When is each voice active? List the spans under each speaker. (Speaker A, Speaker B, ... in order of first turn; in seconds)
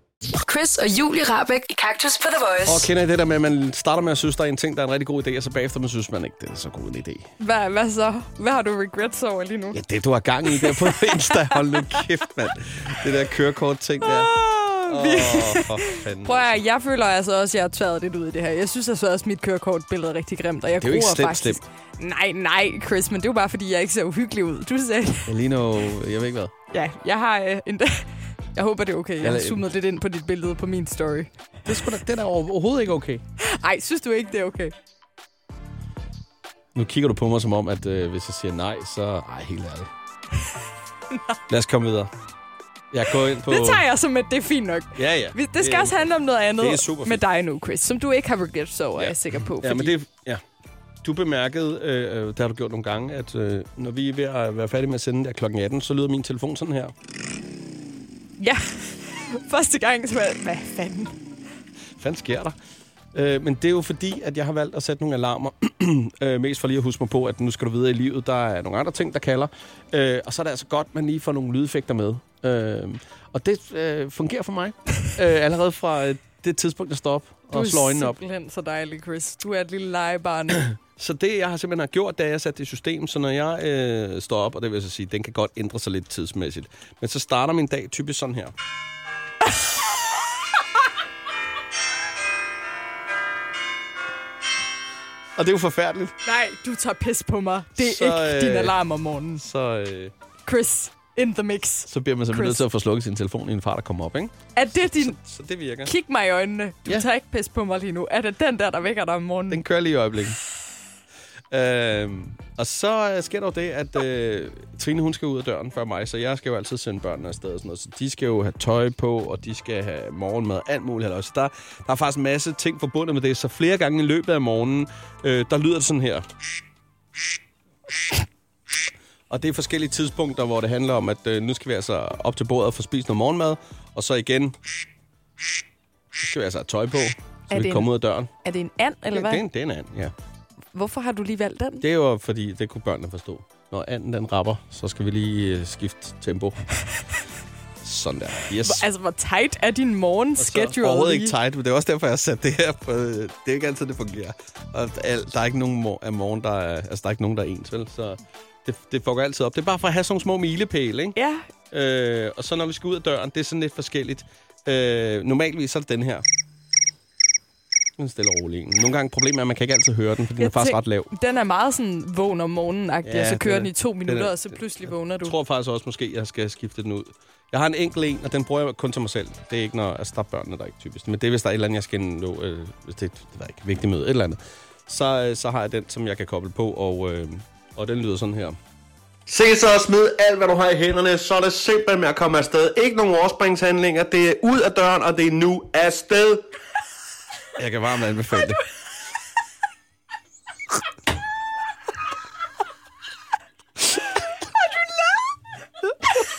Speaker A: 0.3-2.9
Speaker B: 2.6-7.3, 9.7-16.6, 20.8-21.6, 25.3-26.5, 29.2-29.6, 31.7-33.2, 36.8-39.9, 41.5-42.1, 42.9-43.8, 45.0-46.0, 46.6-47.2, 49.0-50.4, 51.0-56.9, 62.0-62.5, 63.1-78.2, 80.6-88.5, 95.4-96.1, 97.8-98.8, 99.4-100.1, 101.9-105.9, 109.5-110.4, 111.5-126.2, 129.3-134.6, 136.2-138.3, 139.1-140.1, 141.8-146.6, 147.8-148.9, 150.4-161.2, 161.7-166.2, 168.0-171.1, 173.1-188.6, 189.3-196.4, 197.6-198.6
Speaker C: 7.4-9.8, 10.5-12.0, 14.0-25.3, 26.7-31.3, 33.4-34.7, 43.4-50.0, 58.4-61.1, 77.5-80.7, 96.2-99.4, 100.5-102.6, 104.5-105.2, 105.8-109.6, 137.5-137.9, 138.4-139.4, 140.8-141.8, 148.6-151.3, 161.2-161.5, 170.4-175.3